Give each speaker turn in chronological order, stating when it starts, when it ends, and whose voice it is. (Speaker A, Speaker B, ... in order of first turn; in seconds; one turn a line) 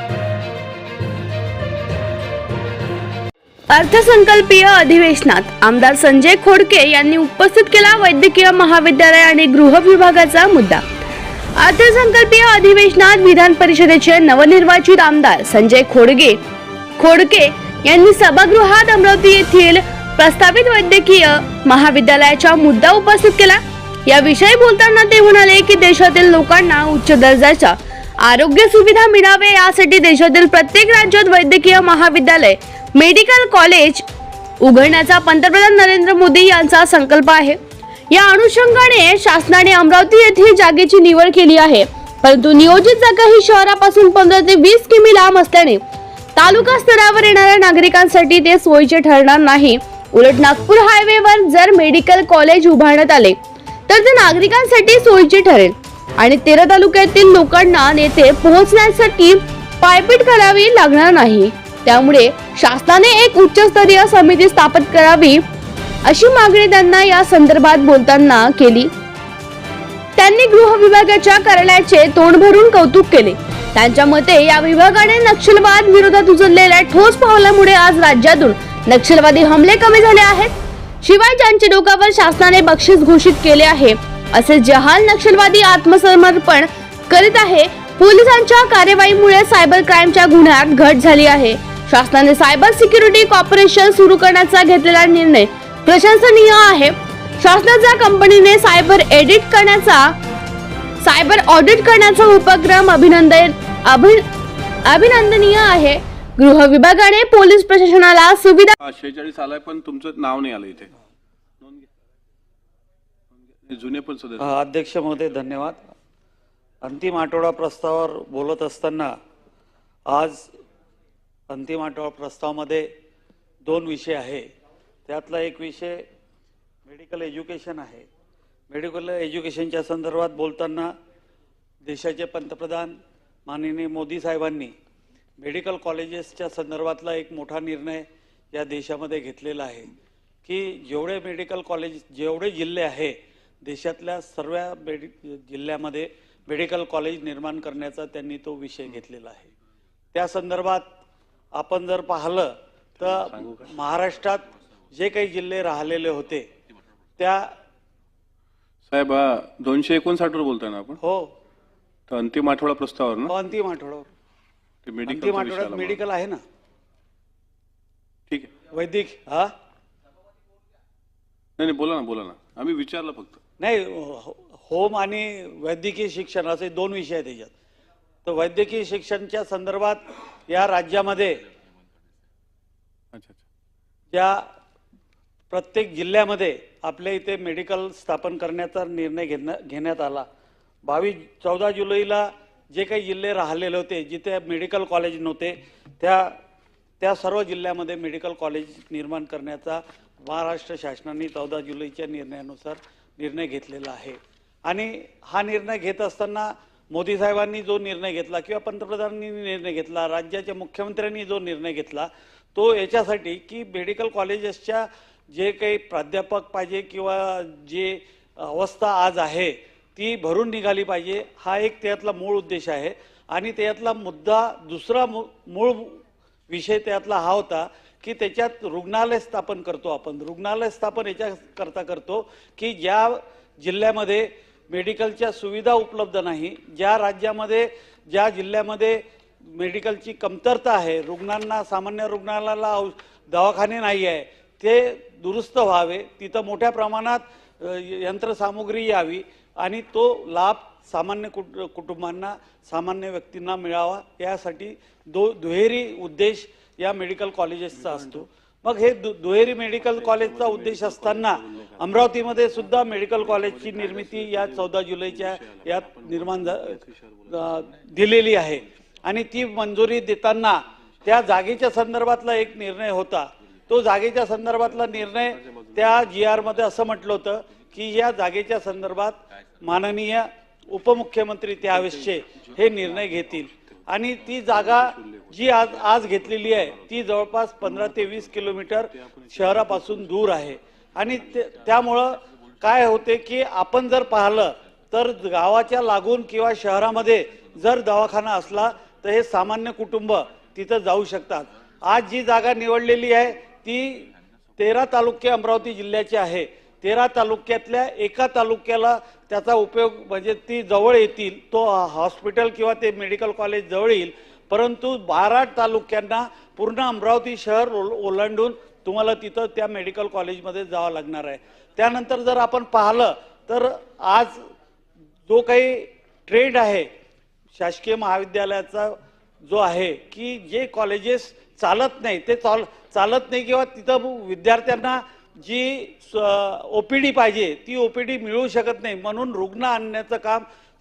Speaker A: 3.7-10.8
Speaker A: 11.6-16.4
Speaker A: 17.0-34.0
Speaker A: 34.6-37.6
Speaker A: 38.1-45.8
Speaker A: 46.4-65.4
Speaker A: 66.0-68.9
Speaker A: 70.2-100.2
Speaker A: 101.0-104.2
Speaker A: 104.9-108.8
Speaker B: 108.8-110.9
Speaker B: 111.6-111.9
Speaker B: 113.4-114.5
Speaker C: 114.4-115.9
Speaker C: 116.8-119.2
Speaker C: 120.1-120.5
Speaker C: 121.5-122.9
Speaker C: 123.7-124.5
Speaker C: 125.1-126.0
Speaker C: 126.9-128.1
Speaker C: 128.7-130.9
Speaker C: 131.8-134.7
Speaker C: 135.4-139.9
Speaker C: 140.4-149.5
Speaker C: 150.1-150.9
Speaker C: 151.6-156.5
Speaker B: 153.0-153.7
Speaker C: 157.2-157.5
Speaker B: 158.9-161.0
Speaker C: 161.0-161.3
Speaker B: 162.1-163.3
Speaker C: 163.3-164.1
Speaker B: 164.8-166.0
Speaker C: 165.1-166.4
Speaker C: 168.7-169.5
Speaker B: 171.6-173.4
Speaker C: 173.6-177.5
Speaker C: 178.2-181.4
Speaker B: 183.1-183.4
Speaker C: 184.1-184.5
Speaker C: 185.5-190.3
Speaker C: 190.8-196.3
Speaker C: 197.0-324.5
Speaker B: 257.8-258.2
Speaker B: 259.9-268.0
Speaker B: 274.7-276.1
Speaker B: 281.6-283.8
Speaker B: 284.4-287.0
Speaker B: 287.6-290.5
Speaker B: 291.2-291.5
Speaker C: 325.3-326.9
Speaker C: 327.5-340.4